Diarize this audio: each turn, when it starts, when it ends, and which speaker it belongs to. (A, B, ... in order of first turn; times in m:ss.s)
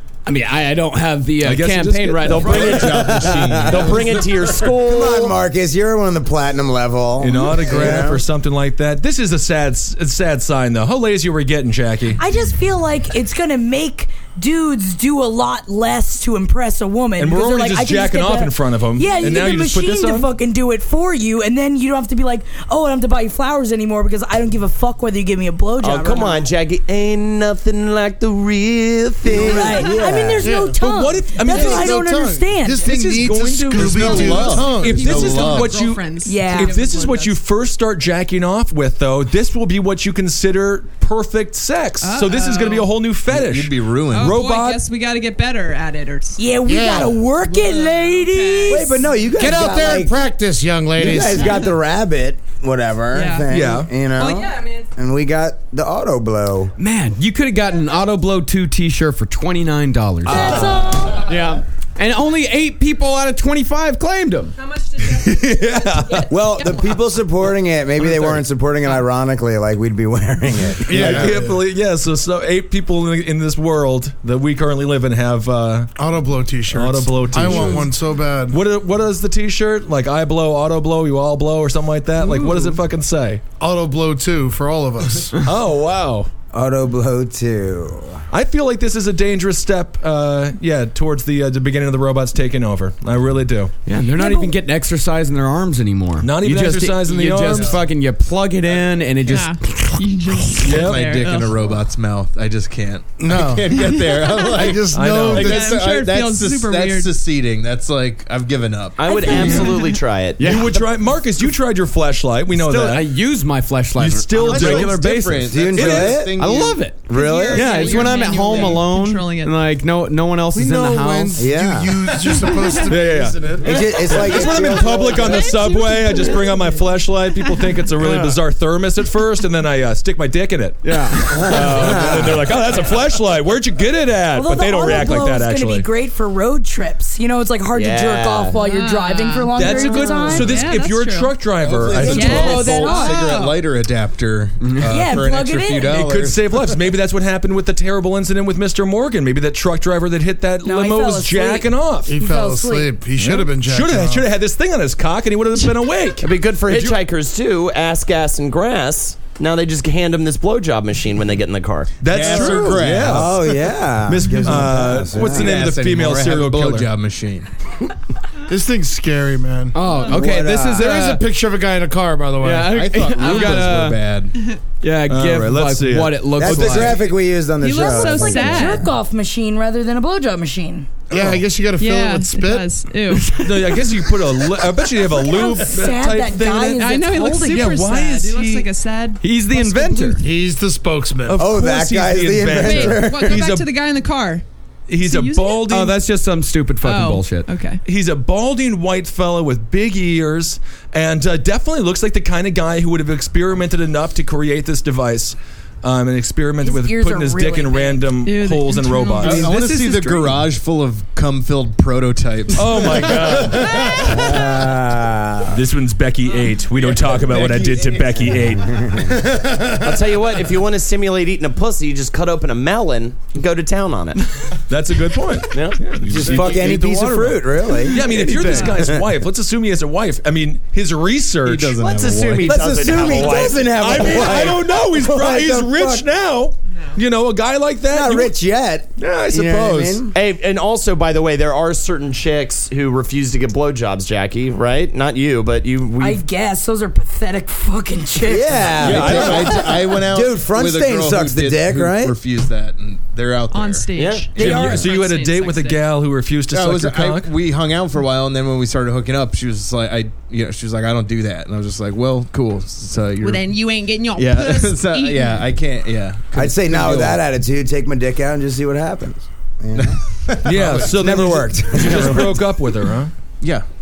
0:00.3-0:02.8 A
0:01.4-0:03.0 B
0:02.3-0:04.3 C
0:02.3-0:05.4 D
0:02.9-0:04.0 E
0:04.7-0:08.2 E
0:07.2-0:12.2 B
0:12.2-0:26.5 F
0:17.2-0:20.3 B
0:25.8-0:29.9 D
0:29.3-0:30.4 E
0:29.3-0:32.9 F
0:29.7-0:30.8 G
0:30.8-0:32.0 B
0:31.4-0:35.7 G
0:32.8-0:44.8 B
0:33.7-0:35.7 C
0:34.0-0:37.4 H
0:36.2-0:36.8 F
0:42.0-0:43.0 H
0:43.3-0:44.4 C
0:44.1-0:46.5 H
0:46.4-0:49.0 F
0:46.7-0:47.1 G
0:47.5-0:49.3 H
0:48.7-0:50.2 E
0:49.3-0:51.6 G
0:51.0-0:56.7 E
0:53.1-0:54.9 H
0:53.5-0:53.9 B
0:56.8-1:04.6 A
1:00.3-1:01.0 E
1:00.3-1:01.3 F
1:04.8-1:05.2 H
1:05.1-1:06.3 B
1:06.3-1:11.6 E
1:08.1-1:08.3 B
1:10.9-1:11.5 G
1:10.9-1:15.9 B
1:16.0-1:18.6 G
1:16.7-1:17.9 B
1:18.5-1:23.4 B
1:22.2-1:22.7 A
1:23.6-1:25.4 G
1:25.3-1:26.3 B
1:26.5-1:28.2 E
1:28.3-1:33.7 B
1:33.9-1:40.7 A
1:34.1-1:34.5 F
1:36.2-1:37.8 B
1:37.5-1:37.8 G
1:39.2-1:41.6 H
1:40.6-1:41.1 B
1:40.6-1:49.4 C
1:43.2-1:44.0 G
1:44.0-1:44.8 H
1:44.5-1:45.8 G
1:44.9-1:45.5 B
1:45.3-1:47.2 H
1:49.0-1:50.5 D
1:49.1-1:50.0 F
1:49.2-1:49.8 H
1:49.3-1:49.6 B
1:50.4-1:50.9 A
1:50.4-1:53.1 B
1:52.5-1:57.0 A
1:54.0-1:55.0 B
1:54.4-1:57.0 C
1:55.5-1:56.4 E
1:55.7-1:56.2 B
1:57.1-1:59.6 H
1:57.1-1:57.8 E
1:57.5-2:01.5 A
1:57.9-1:58.6 C
2:00.5-2:04.1 G
2:01.4-2:02.0 E
2:02.2-2:02.9 H
2:02.9-2:15.9 B
2:03.6-2:05.5 E
2:04.3-2:06.7 H
2:08.0-2:08.4 D
2:10.8-2:11.5 A
2:11.3-2:12.6 E
2:14.3-2:20.6 F
2:17.7-2:18.6 D
2:18.6-2:21.4 H
2:19.6-2:22.8 B
2:21.5-2:26.7 C
2:21.9-2:23.6 H
2:22.2-2:23.3 F
2:24.6-2:24.9 A
2:24.8-2:26.0 F
2:25.9-2:32.2 B
2:30.6-2:33.0 F
2:32.1-2:34.3 G
2:33.2-2:37.0 B
2:36.2-2:41.9 D
2:42.0-2:43.5 B
2:42.1-2:43.3 C
2:42.2-2:45.6 E
2:44.1-2:46.9 B
2:44.5-2:47.5 C
2:48.5-2:49.8 G
2:49.7-2:51.2 A
2:49.9-2:50.2 H
2:50.1-2:50.9 E
2:50.8-2:52.8 G
2:52.4-2:54.0 A
2:52.7-2:54.3 C
2:54.8-2:57.0 A
2:55.1-2:57.0 B
2:56.4-2:58.9 E
2:57.6-2:58.9 H
2:57.7-3:01.1 F
3:01.1-3:02.7 G
3:01.1-3:01.4 B
3:01.8-3:04.2 H
3:03.4-3:06.8 B
3:05.0-3:07.9 F
3:06.8-3:10.2 H
3:07.5-3:08.7 B
3:09.2-3:10.2 A
3:10.2-3:11.4 G
3:11.3-3:13.7 B
3:11.4-3:13.4 E
3:12.6-3:14.4 H
3:14.9-3:16.0 B
3:15.0-3:15.7 H
3:15.7-3:17.5 A
3:16.8-3:17.8 H
3:17.8-3:29.6 B
3:26.6-3:28.1 F
3:28.2-3:29.6 H
3:29.2-3:33.4 C
3:29.3-3:30.5 A
3:32.5-3:34.4 B
3:33.5-3:34.0 G
3:33.9-3:35.6 E
3:35.5-3:39.0 B
3:36.8-3:37.7 C
3:38.2-3:39.1 E
3:39.1-3:40.0 G
3:39.8-3:44.3 D
3:44.7-3:46.7 B
3:45.5-3:45.8 D
3:46.0-3:49.1 E
3:46.1-3:47.3 C
3:47.8-3:48.9 C
3:47.9-3:51.8 B
3:51.4-3:52.9 C
3:51.8-3:53.8 D
3:52.4-3:56.1 E
3:53.3-3:58.4 B
3:57.9-4:00.2 E
3:59.0-4:00.1 B
4:00.1-4:06.2 D
4:06.0-4:09.4 F
4:08.2-4:12.2 E
4:08.8-4:13.9 C
4:08.8-4:09.7 B
4:13.5-4:15.9 H
4:13.9-4:14.8 D
4:14.4-4:17.3 B
4:14.4-4:14.8 F
4:16.5-4:23.5 C
4:23.2-4:25.6 H
4:24.1-4:27.2 C
4:26.4-4:30.0 E
4:29.8-4:30.9 C
4:30.4-4:33.1 B
4:30.7-4:32.5 E
4:33.4-4:33.7 C